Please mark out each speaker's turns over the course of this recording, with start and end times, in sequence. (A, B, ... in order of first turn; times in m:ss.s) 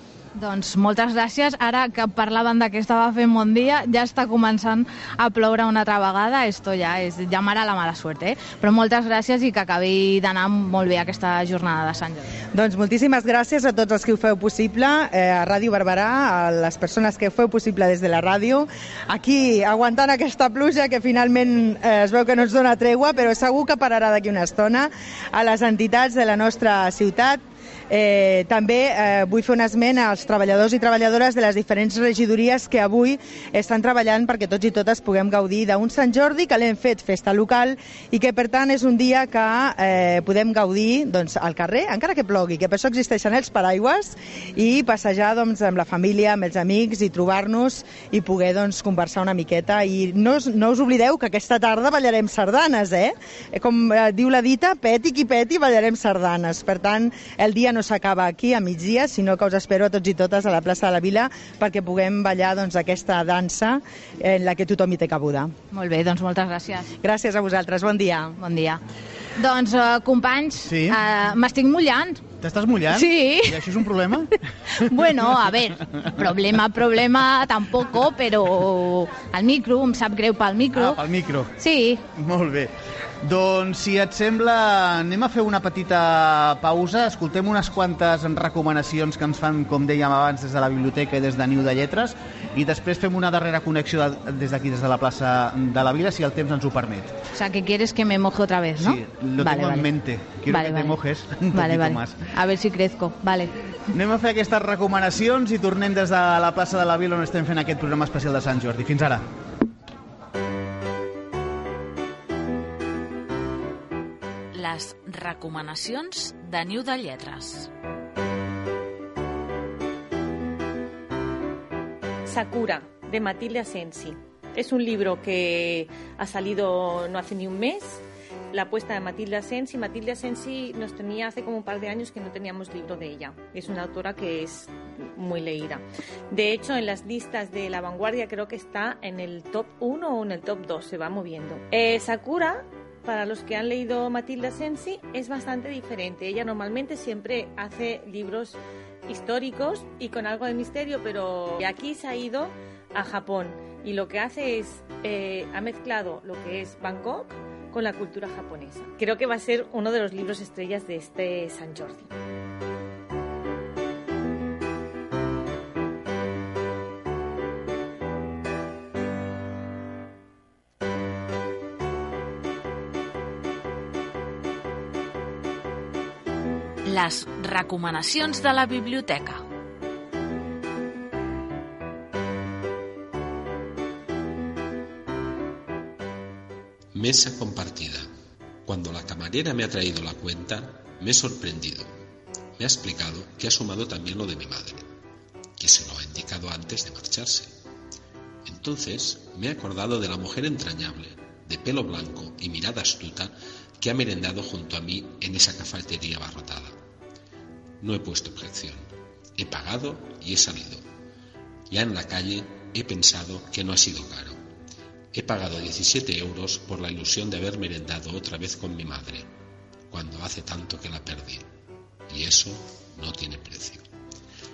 0:00.4-0:12.3 A
0:12.6-1:05.5 B
1:05.7-1:06.9 A
1:07.0-1:08.4 B
1:08.4-1:08.8 A
1:09.4-1:12.2 A
1:10.7-1:11.0 C
1:12.4-1:15.5 C
1:12.9-1:13.9 A
1:14.7-1:21.0 A
1:20.7-1:21.6 C
1:21.6-1:22.0 A
1:22.1-1:37.2 C
1:37.3-1:39.9 A
1:38.8-1:42.2 C
1:40.5-1:41.0 A
1:41.5-1:43.5 A
1:43.9-1:49.2 C
1:54.5-1:57.7 D
2:02.3-2:42.1 E
2:56.8-2:59.4 D
3:06.9-3:08.1 F
3:08.7-3:11.9 F
3:12.6-3:14.9 F
3:15.6-3:17.6 F
3:18.5-3:26.8 F
3:27.8-3:30.8 F
3:31.7-3:34.4 F
3:35.1-3:39.3 F
3:39.9-3:41.5 F
3:42.1-3:43.9 F